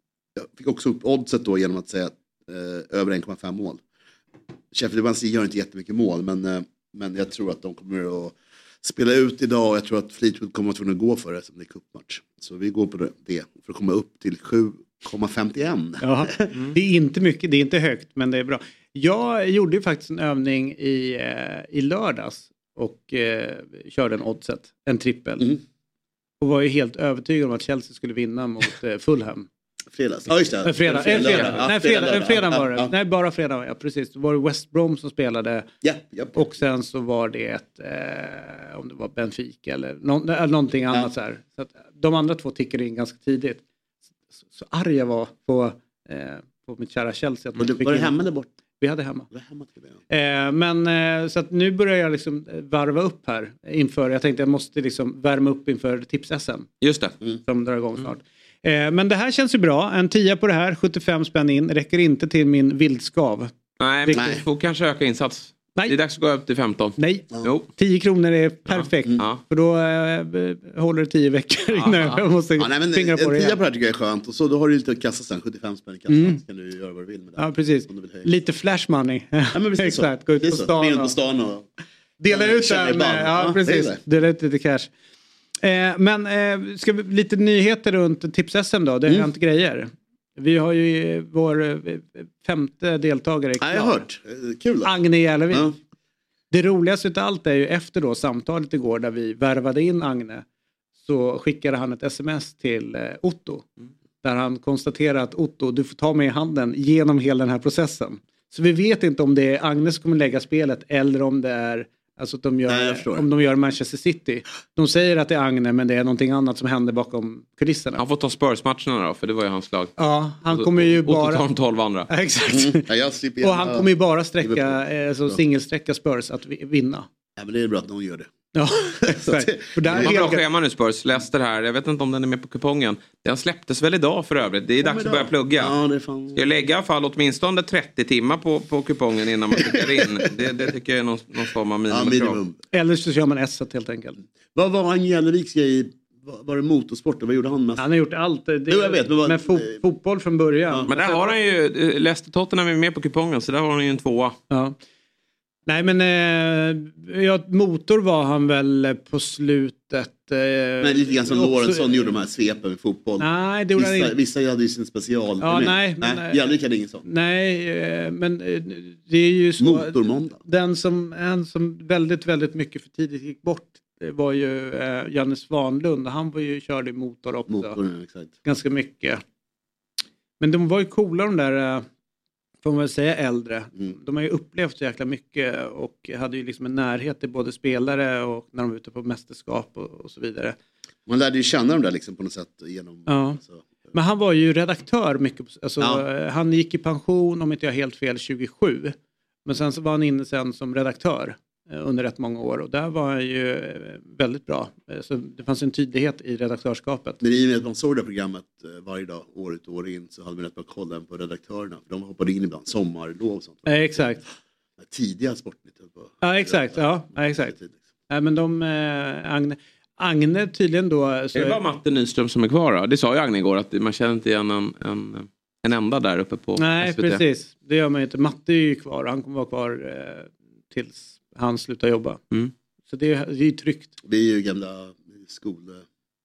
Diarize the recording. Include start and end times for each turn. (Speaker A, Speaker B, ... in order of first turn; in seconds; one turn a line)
Speaker A: 0.3-3.8
Speaker A: 4.7-16.1
Speaker B: 16.0-25.5
Speaker B: 26.4-29.5
Speaker A: 29.9-32.9
Speaker B: 30.6-35.7
Speaker A: 35.8-36.4
Speaker B: 36.4-43.6
Speaker B: 44.4-48.2
Speaker A: 47.6-48.5
Speaker B: 48.8-49.3
Speaker A: 49.3-50.0
Speaker B: 50.1-56.8
Speaker C: 56.8-57.1
Speaker B: 57.5-63.5
Speaker C: 63.8-67.7
Speaker B: 64.0-64.3
Speaker A: 64.1-64.4
Speaker B: 67.0-73.6
Speaker C: 68.7-69.4
Speaker C: 71.7-72.2
Speaker A: 72.6-78.3
Speaker B: 76.1-76.4
Speaker B: 77.4-81.1
Speaker A: 79.5-81.7
Speaker B: 82.2-84.9
Speaker A: 82.3-84.0
Speaker B: 85.6-94.0
Speaker A: 93.6-94.9
Speaker B: 94.8-95.7
Speaker A: 95.5-95.8
Speaker B: 96.5-100.4
Speaker B: 101.0-103.7
Speaker B: 104.2-118.0
Speaker A: 112.7-113.2
Speaker C: 118.0-119.9
Speaker B: 120.0-121.5
Speaker C: 120.5-122.1
Speaker B: 122.1-122.8
Speaker A: 122.5-123.9
Speaker B: 123.4-127.1
Speaker A: 124.4-125.4
Speaker A: 127.4-128.3
Speaker B: 128.5-130.4
Speaker A: 129.0-130.2
Speaker C: 129.9-135.7
Speaker A: 134.8-136.5
Speaker C: 136.3-142.4
Speaker A: 139.6-140.1
Speaker A: 141.9-142.6
Speaker B: 142.7-144.2
Speaker A: 144.5-147.8
Speaker B: 147.8-151.2
Speaker A: 148.7-149.8
Speaker C: 150.9-154.4
Speaker B: 154.5-154.8
Speaker B: 155.7-162.1
Speaker A: 160.8-167.0
Speaker B: 163.2-164.1
Speaker B: 165.4-166.4
Speaker B: 167.0-177.8
Speaker A: 169.6-170.4
Speaker A: 177.5-178.3
Speaker B: 178.4-179.2
Speaker B: 180.4-181.8
Speaker B: 182.6-190.6
Speaker A: 191.1-193.9
Speaker B: 193.1-193.4
Speaker B: 193.9-198.9
Speaker B: 199.4-207.2
Speaker A: 207.2-214.1
Speaker B: 213.7-214.2
Speaker A: 214.8-217.8
Speaker B: 216.2-217.5
Speaker B: 218.1-221.6
Speaker C: 221.3-227.2
Speaker B: 226.6-232.2
Speaker B: 232.9-233.9
Speaker A: 234.0-235.8